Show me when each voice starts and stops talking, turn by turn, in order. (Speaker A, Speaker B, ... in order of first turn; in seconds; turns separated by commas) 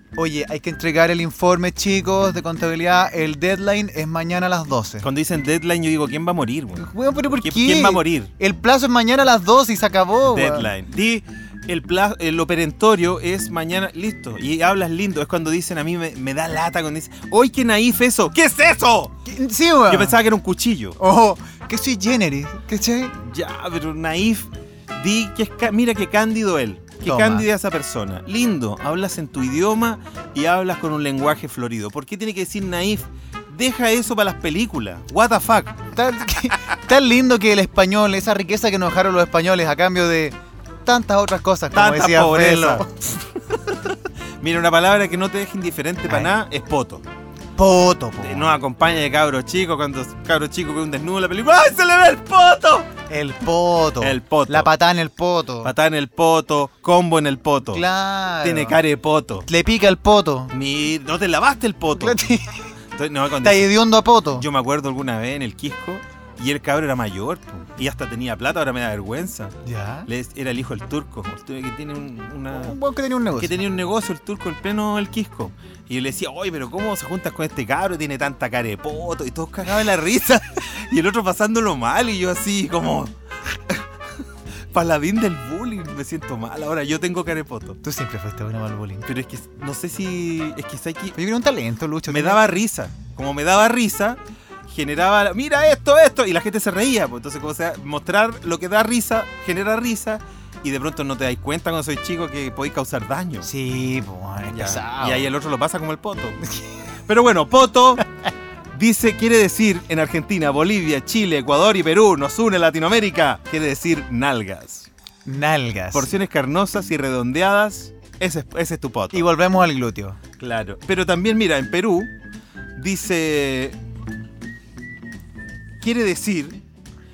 Speaker A: 0.2-5.1, Speaker B: 5.0-8.3, Speaker A: 6.8-10.7, Speaker B: 10.2-19.1, Speaker A: 19.2-20.2, Speaker B: 19.9-21.0, Speaker A: 21.0-23.2, Speaker B: 23.2-35.8, Speaker A: 27.1-27.5, Speaker A: 35.9-43.2, Speaker B: 41.7-42.9, Speaker B: 43.5-47.0, Speaker A: 46.1-46.3, Speaker A: 47.6-48.6, Speaker B: 48.2-52.9, Speaker A: 53.1-55.7, Speaker B: 54.0-54.7, Speaker B: 55.6-57.9, Speaker A: 57.7-58.8, Speaker B: 58.4-59.5, Speaker A: 59.5-60.5, Speaker B: 60.5-62.2, Speaker A: 62.0-62.6, Speaker B: 63.0-63.7, Speaker A: 63.4-64.5, Speaker B: 64.4-69.5, Speaker A: 69.6-70.1, Speaker B: 70.1-72.8, Speaker A: 72.5-73.5, Speaker B: 73.4-83.1, Speaker B: 84.7-87.8, Speaker A: 87.8-89.1, Speaker B: 89.0-91.2, Speaker A: 91.2-92.6, Speaker B: 92.1-103.5, Speaker A: 103.4-105.3, Speaker B: 104.5-106.4, Speaker B: 107.1-108.0, Speaker B: 108.7-114.9, Speaker A: 115.2-116.1, Speaker B: 115.9-119.2, Speaker A: 119.1-120.2, Speaker B: 120.4-122.1, Speaker B: 122.8-123.8, Speaker B: 125.8-126.6